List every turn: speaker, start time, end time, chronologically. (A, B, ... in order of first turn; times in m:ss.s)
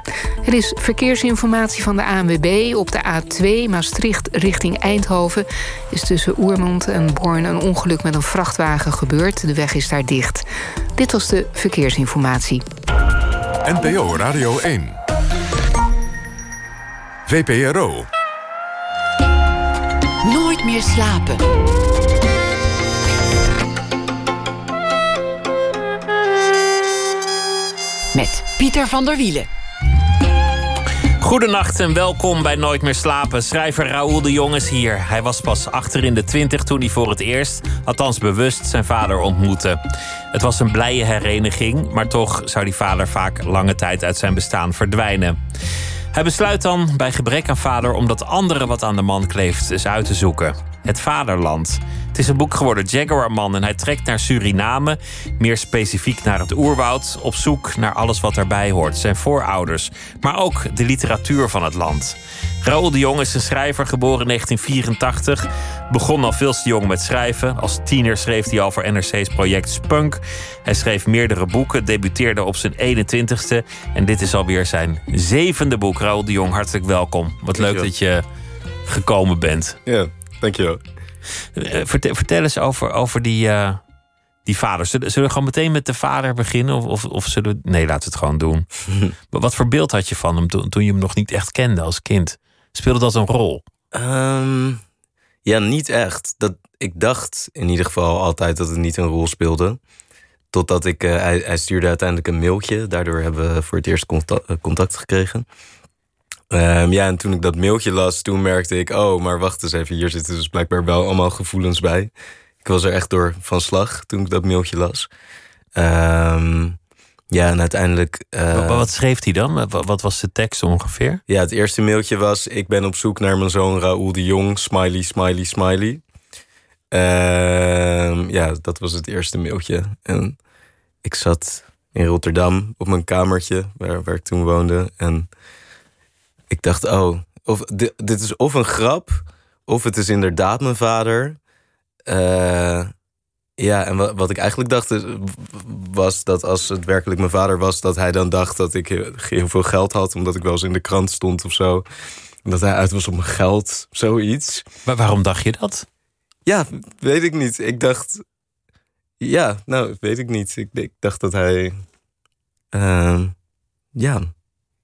0:00.4-0:10.4 A
0:11.0-0:12.6 A
0:13.6-0:15.0 B
0:17.3-0:18.1 B
0:20.2-0:21.5 C
0:28.1-0:29.5 C
0:31.2-0:39.8 D
0:40.3-0:45.4 D
0:46.1-1:18.2 D
1:17.6-1:17.9 E
1:18.8-1:19.8 D
1:19.8-1:20.8 E
1:21.5-1:23.8 D
1:24.4-1:28.6 D
1:29.3-1:33.6 D
1:33.9-1:34.8 E
1:35.4-1:39.8 E
1:40.5-1:45.4 E
1:46.5-1:52.1 E
1:52.6-1:55.1 E
1:55.7-1:56.8 E
1:57.3-1:58.9 E
1:58.5-2:01.2 D
2:01.3-2:06.0 E
2:06.9-2:10.4 E
2:11.0-2:15.3 E
2:16.5-2:21.4 E
2:22.0-2:22.9 E
2:23.6-2:31.8 E
2:32.4-2:34.7 E
2:34.8-2:35.8 D
2:36.4-2:38.2 E
2:39.2-2:41.7 E
2:42.7-2:43.3 E
2:43.9-2:44.3 E